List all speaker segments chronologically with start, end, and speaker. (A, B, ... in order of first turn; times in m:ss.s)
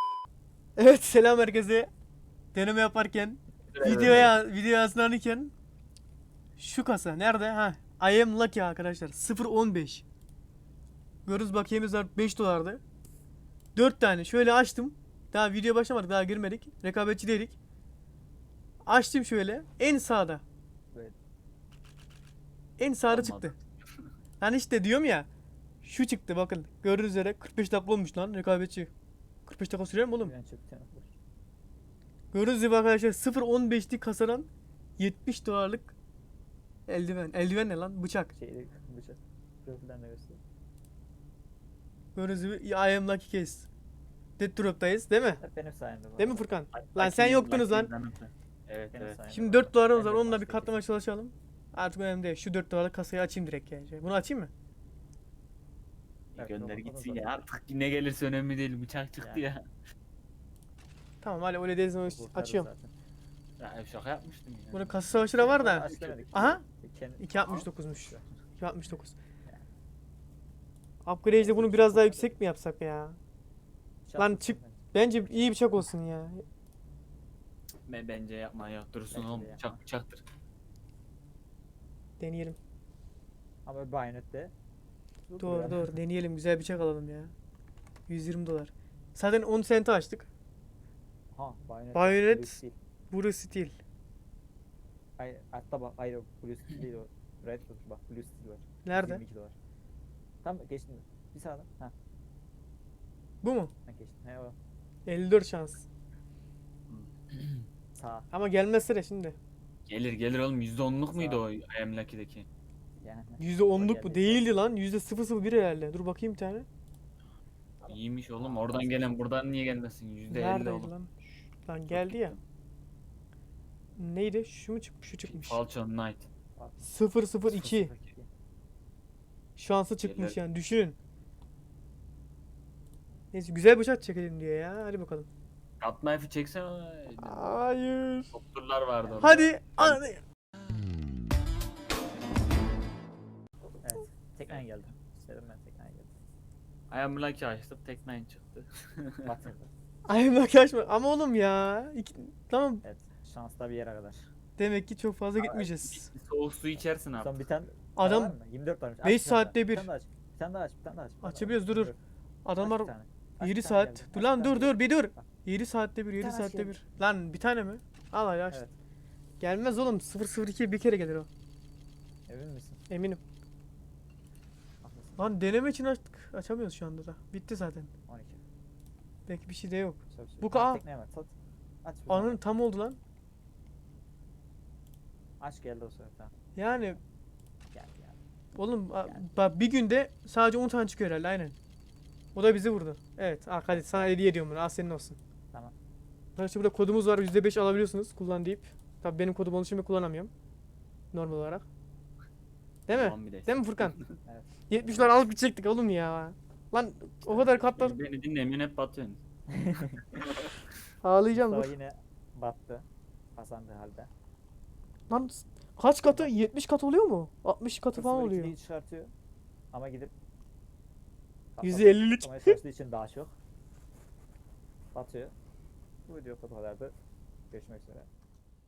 0:00.8-0:01.9 A
0:02.5-0:05.5 A
0:03.7-0:04.3 B
0:06.6-0:10.0 A
0:11.3-0:12.8 A
0:13.8-0:17.6 A
0:18.9-0:20.4 A
0:22.8-0:23.6 A
0:23.1-0:23.6 B
0:24.4-0:25.3 A
0:25.8-0:28.9 A
0:29.5-0:30.3 A
0:30.2-0:31.2 C
0:32.3-0:35.9 A
0:36.9-0:38.3 A
0:38.3-0:40.4 C
0:42.2-0:43.7 A
0:44.4-0:45.4 A
0:45.4-0:46.5 C
0:46.2-0:47.9 A
0:46.7-0:49.2 B
0:48.9-0:50.8 C
0:49.3-0:54.5 A
0:56.3-0:59.6 B
0:56.4-0:57.4 C
0:59.2-0:59.5 C
1:01.2-1:02.7 A
1:02.0-1:02.9 C
1:03.6-1:06.5 B
1:04.7-1:06.6 A
1:05.3-1:08.4 C
1:07.2-1:09.2 A
1:07.4-1:07.7 B
1:11.0-1:13.2 A
1:11.3-1:12.4 C
1:14.0-1:15.4 C
1:14.2-1:16.4 A
1:17.9-1:20.2 B
1:19.1-1:19.8 C
1:22.2-1:22.6 A
1:23.6-1:24.5 C
1:25.3-1:25.9 C
1:25.4-1:27.3 A
1:28.1-1:30.3 A
1:31.3-1:32.8 C
1:31.9-1:33.8 A
1:35.2-1:39.6 C
1:38.8-1:39.2 A
1:40.4-1:41.9 C
1:43.4-1:43.7 A
1:43.9-1:44.6 C
1:45.1-1:45.9 A
1:46.9-1:47.6 B
1:48.0-1:48.3 C
1:48.3-1:49.4 A
1:49.9-1:52.5 B
1:51.1-1:51.4 C
1:53.0-1:54.5 C
1:53.4-1:56.7 A
1:57.8-1:59.4 C
1:57.9-2:00.9 B
2:00.3-2:02.3 A
2:01.9-2:02.4 B
2:04.0-2:05.6 A
2:05.2-2:06.3 B
2:06.6-2:06.9 C
2:06.8-2:07.9 A
2:07.5-2:08.1 B
2:07.9-2:08.3 C
2:09.6-2:11.0 A
2:10.0-2:10.4 B
2:13.3-2:15.3 A
2:15.8-2:17.6 B
2:17.2-2:18.3 A
2:18.3-2:20.0 B
2:19.0-2:19.6 C
2:19.2-2:20.2 A
2:23.8-2:26.1 C
2:26.9-2:29.3 B
2:29.2-2:29.7 C
2:30.1-2:32.8 A
2:32.8-2:34.3 C
2:34.6-2:36.1 A
2:35.4-2:35.7 C
2:35.9-2:37.4 B
2:37.1-2:42.0 C
2:38.0-2:38.4 A
2:39.0-2:39.9 A
2:41.2-2:41.9 A
2:42.4-2:48.6 A
2:42.6-2:45.3 C
2:46.2-2:46.8 C
2:48.5-2:48.8 C
2:49.4-2:51.3 A
2:52.3-2:52.8 C
2:52.9-2:53.2 A
2:54.8-2:55.3 C
2:55.2-2:57.9 A
2:58.1-2:58.4 C
2:59.3-3:00.8 A
3:00.1-3:02.5 C
3:02.1-3:03.0 A
3:05.4-3:06.4 C
3:06.6-3:07.0 A
3:07.7-3:08.2 C
3:08.6-3:11.5 A
3:09.0-3:09.3 C
3:12.4-3:15.2 A
3:13.7-3:14.2 C
3:16.4-3:20.3 A
3:21.1-3:21.7 A
3:22.9-3:24.0 A
3:22.9-3:24.2 B
3:24.3-3:25.1 C
3:24.7-3:28.0 A
3:27.3-3:29.2 B
3:29.5-3:30.2 C
3:30.2-3:30.6 B
3:31.0-3:31.7 A
3:31.3-3:34.1 C
3:35.1-3:38.6 A
3:36.1-3:36.3 C
3:37.9-3:39.1 C
3:39.7-3:40.1 C
3:41.6-3:43.4 C
3:41.6-3:42.6 A
3:44.9-3:45.3 C
3:46.1-3:46.9 C
3:47.5-3:48.1 C